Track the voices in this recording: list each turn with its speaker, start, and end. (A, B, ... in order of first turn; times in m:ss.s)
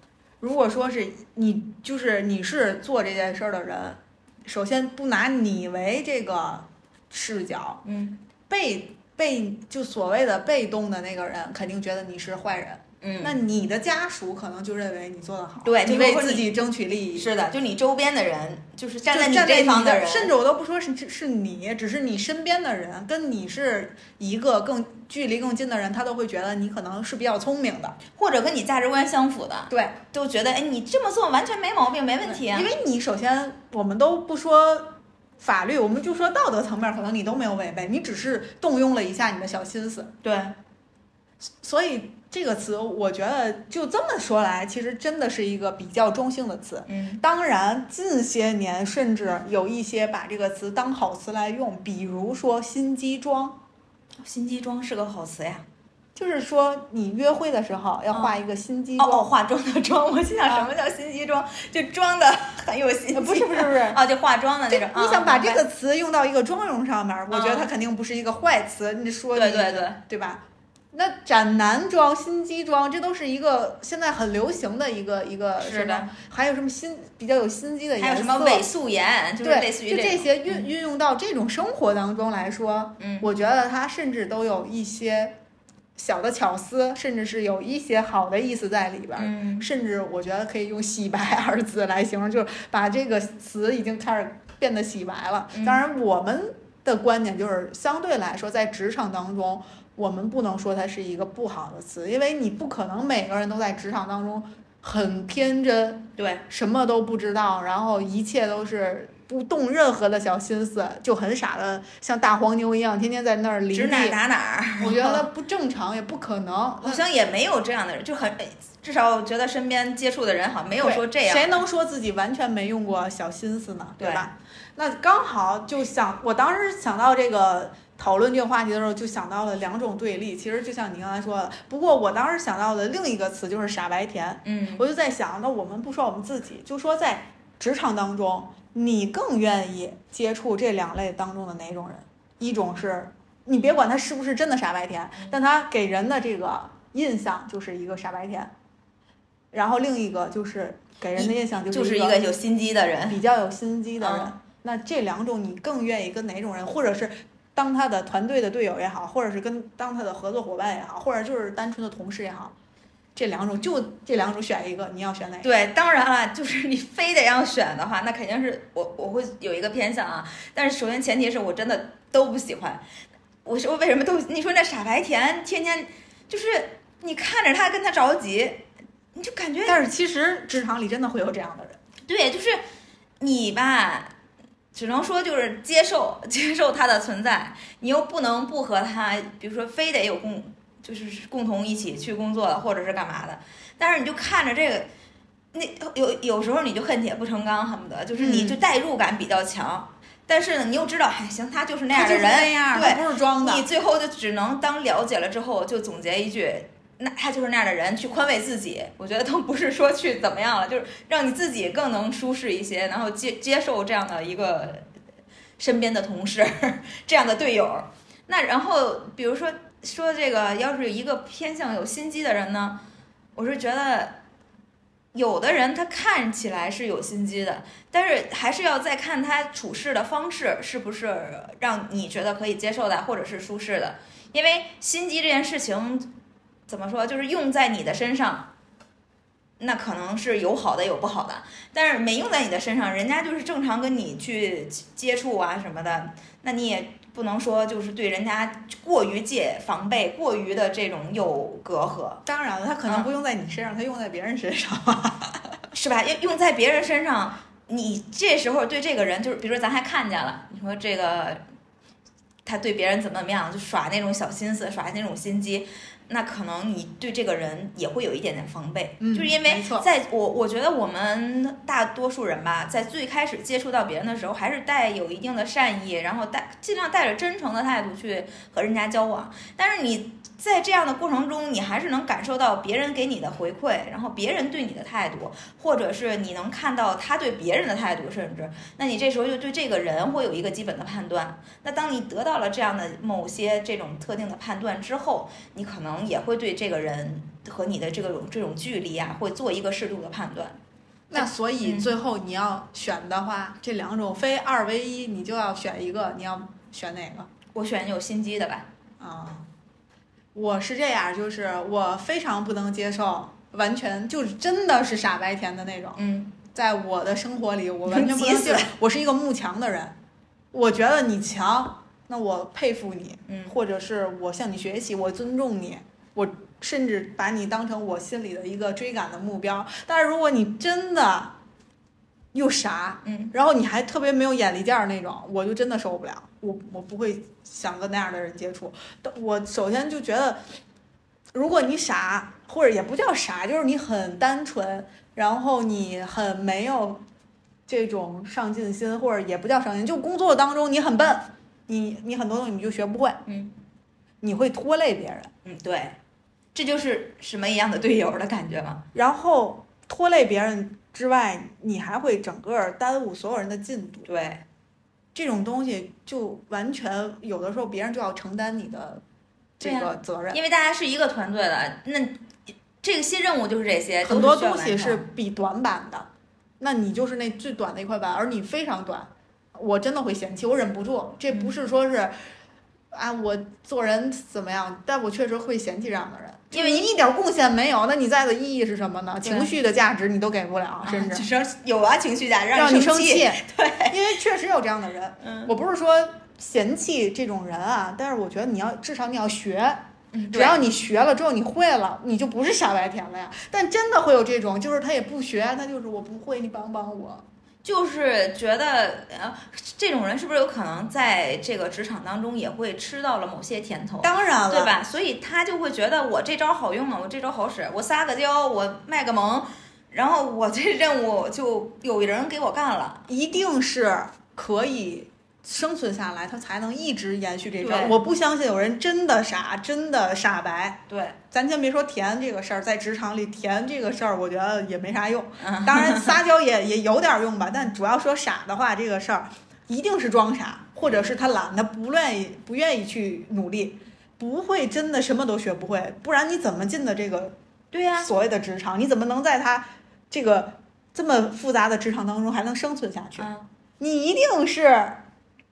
0:00.4-0:07.8 A
0:07.8-0:08.2 B
0:08.5-0:17.3 A
0:13.0-0:13.4 B
0:15.6-0:16.5 B
0:17.1-0:20.3 B
0:19.0-0:28.0 A
0:28.1-0:32.7 B
0:29.7-0:30.0 A
0:32.2-0:40.1 A
0:40.2-0:40.6 B
0:41.4-0:53.6 A
0:46.8-0:47.2 B
0:54.2-0:55.7 B
0:56.2-0:59.3 A
0:58.1-0:58.4 B
0:59.0-1:05.6 B
1:03.1-1:04.0 A
1:04.7-1:18.6 A
1:07.3-1:07.7 B
1:09.3-1:10.0 B
1:15.6-1:16.1 B
1:18.0-1:20.7 B
1:19.4-1:25.4 A
1:23.0-1:23.3 B
1:26.0-1:54.2 A
1:29.2-1:29.6 B
1:35.5-1:35.8 B
1:46.2-1:46.4 B
1:53.7-1:55.2 B
1:54.8-1:57.0 A
1:56.8-2:01.6 B
2:00.8-2:28.5 A
2:04.0-2:04.3 B
2:14.4-2:14.8 B
2:29.5-2:32.2 A
2:31.2-2:33.2 B
2:33.1-2:42.5 A
2:34.0-2:34.3 B
2:43.1-2:45.5 A
2:45.4-2:52.8 B
2:53.4-2:59.8 B
2:59.6-3:01.8 A
3:02.0-3:02.6 B
3:03.2-3:04.1 B
3:04.7-3:14.9 B
3:15.5-3:34.9 B
3:18.1-3:18.6 A
3:21.9-3:23.6 A
3:35.6-3:42.8 B
3:43.3-3:44.2 B
3:45.1-3:56.1 B
3:56.7-3:58.5 B
3:59.6-4:12.2 B
4:12.2-4:15.5 A
4:15.7-4:21.4 B
4:22.4-5:00.6 B
4:29.0-4:29.9 A
5:01.1-5:07.3 A
5:01.1-5:01.9 B
5:07.5-5:08.7 B
5:09.0-5:09.5 A
5:10.3-5:16.0 A
5:16.0-5:16.4 B
5:16.5-5:20.0 A
5:17.9-5:18.7 B
5:20.5-5:31.4 A
5:23.3-5:23.5 B
5:32.3-5:40.4 A
5:33.0-5:33.3 B
5:41.3-5:47.0 A
5:47.7-5:53.2 A
5:53.2-5:53.5 B
5:54.2-5:55.3 A
5:55.4-5:56.0 B
5:56.5-5:58.8 B
5:58.9-6:04.1 A
6:04.0-6:04.4 B
6:05.1-6:09.0 A
6:09.6-6:10.4 A
6:09.6-6:12.2 B
6:12.8-6:15.0 B
6:14.0-6:16.1 A
6:16.6-6:22.1 A
6:22.9-6:31.2 A
6:26.5-6:26.9 B
6:29.2-6:29.5 B
6:30.8-6:34.0 B
6:32.5-6:47.2 A
6:35.2-6:35.5 B
6:40.1-6:40.6 B
6:47.6-7:03.0 B
6:54.0-6:54.8 A
7:03.1-7:27.4 A
7:07.6-7:08.0 B
7:10.9-7:11.2 B
7:15.4-7:16.2 B
7:20.8-7:21.1 B
7:27.7-7:28.1 B
7:28.0-7:33.3 A
7:33.2-7:33.5 B
7:33.8-7:35.0 A